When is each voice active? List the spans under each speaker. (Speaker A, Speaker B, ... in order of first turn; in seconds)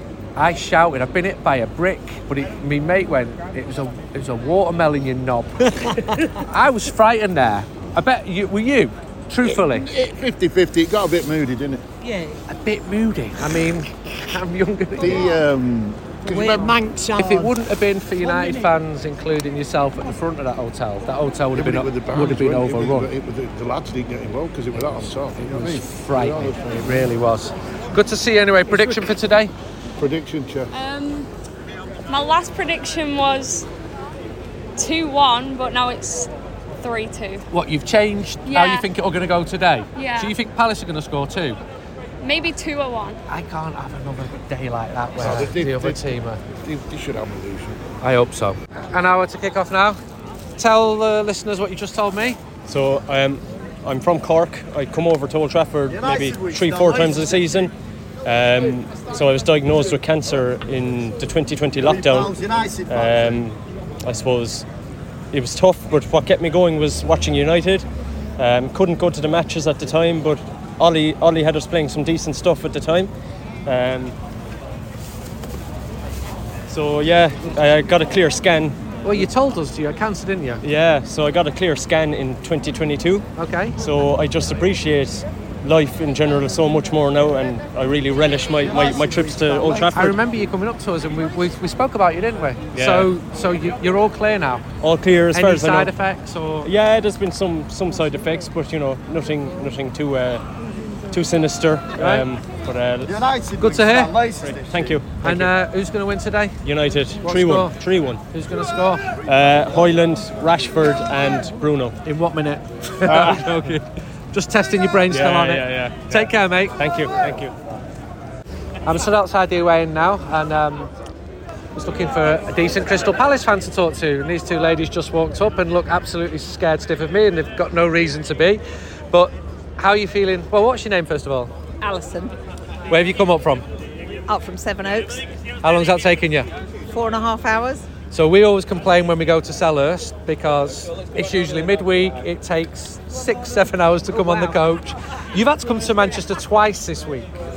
Speaker A: 0.3-9.9, 12.5-15.4, 17.2-23.1, 24.8-29.5, 37.5-41.6, 43.3-46.4, 48.0-50.0, 50.6-52.4, 79.0-80.6, 83.4-83.8, 89.9-94.6, 95.3-96.7, 102.0-102.2, 103.6-104.2, 105.2-106.6, 107.2-107.8, 108.3-109.1, 112.0-116.7, 118.8-120.9, 121.7-131.5, 132.9-133.6, 135.6-136.5, 138.1-147.4
Speaker B: 5.8-6.2, 12.0-12.4, 16.2-17.6, 18.2-18.7
Speaker C: 9.5-11.8, 15.0-16.7, 21.5-27.1, 30.0-30.7, 45.2-46.1, 46.6-47.8, 103.6-104.3
Speaker D: 30.7-31.3, 32.1-33.7, 34.8-36.3, 36.8-37.4, 38.5-38.9, 40.0-40.3, 42.2-43.2
Speaker E: 52.7-57.7, 58.2-64.6, 65.3-67.8, 68.4-73.1, 73.7-74.1, 76.7-79.3, 80.6-83.2, 83.8-90.2, 92.7-93.1, 94.8-95.9, 96.6-100.4, 101.1-103.2, 104.4-105.5, 106.6-108.2, 109.2-111.9, 113.0-113.6, 115.1-117.5
Speaker F: 131.8-132.3, 134.3-135.2, 136.9-137.8, 144.1-144.5